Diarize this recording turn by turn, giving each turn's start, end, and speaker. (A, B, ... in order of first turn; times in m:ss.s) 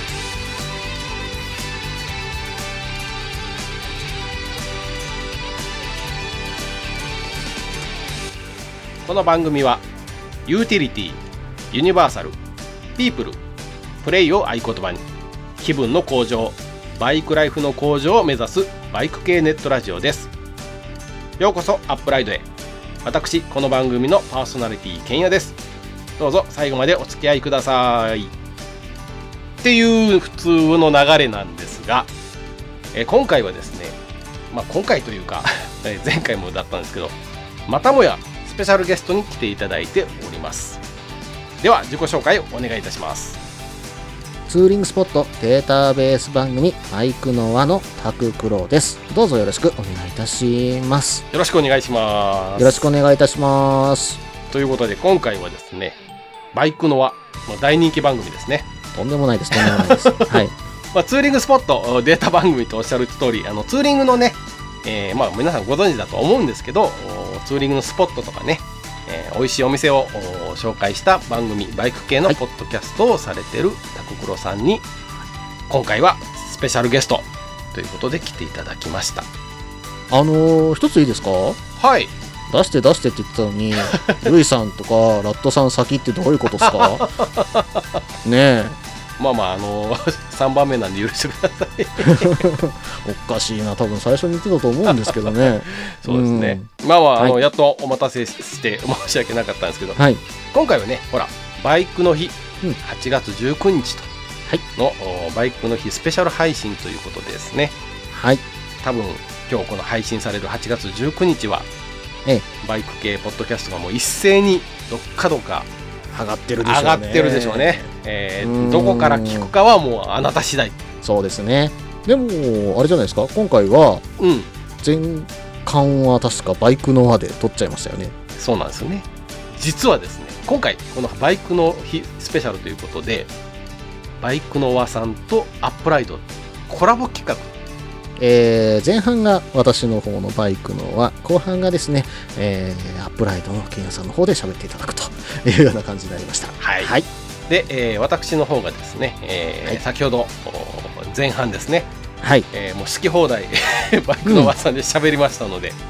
0:09.0-0:09.8 A
0:10.5-0:12.4 A
0:13.0-0:13.4 A
0:14.0-0:15.0 A
0:15.6-0:20.3 A
0:21.4-0:22.5 A
0:23.0-0:25.6 A
0:26.2-0:28.3 A
0:29.6-0:32.1 A
0:32.9-0:34.0 A
0:34.5-0:37.2 A
0:37.7-0:40.8 A
0:41.6-0:43.4 A
0:44.5-0:51.2 B
0:51.3-0:52.9 A
0:52.6-0:54.2 B
0:54.5-0:56.0 A
0:56.5-0:58.7 A
0:58.9-1:00.5 B
0:59.5-1:00.4 A
1:00.9-1:14.8 A
1:15.7-1:19.3 A
1:20.1-1:21.6 B
1:21.8-1:22.1 A
1:22.5-1:27.1 B
1:23.8-1:24.3 A
1:26.5-1:28.0 A
1:28.2-1:28.8 B
1:29.2-1:32.5 A
1:32.0-1:36.7 B
1:34.9-1:40.0 A
1:40.5-1:44.1 A
1:44.8-1:47.8 A
1:48.1-1:48.4 B
1:48.8-1:51.7 A
1:52.6-1:55.7 A
1:56.1-1:57.9 B
1:56.6-2:00.8 A
1:58.4-1:59.5 B
2:01.0-2:04.0 B
2:04.2-2:04.5 A
2:04.8-2:08.1 B
2:08.4-2:13.3 A
2:14.2-2:17.5 A
2:18.2-2:27.1 B
2:26.6-2:27.0 A
2:27.5-2:31.9 A
2:32.2-2:32.5 B
2:32.5-2:35.8 A
2:34.2-2:34.5 B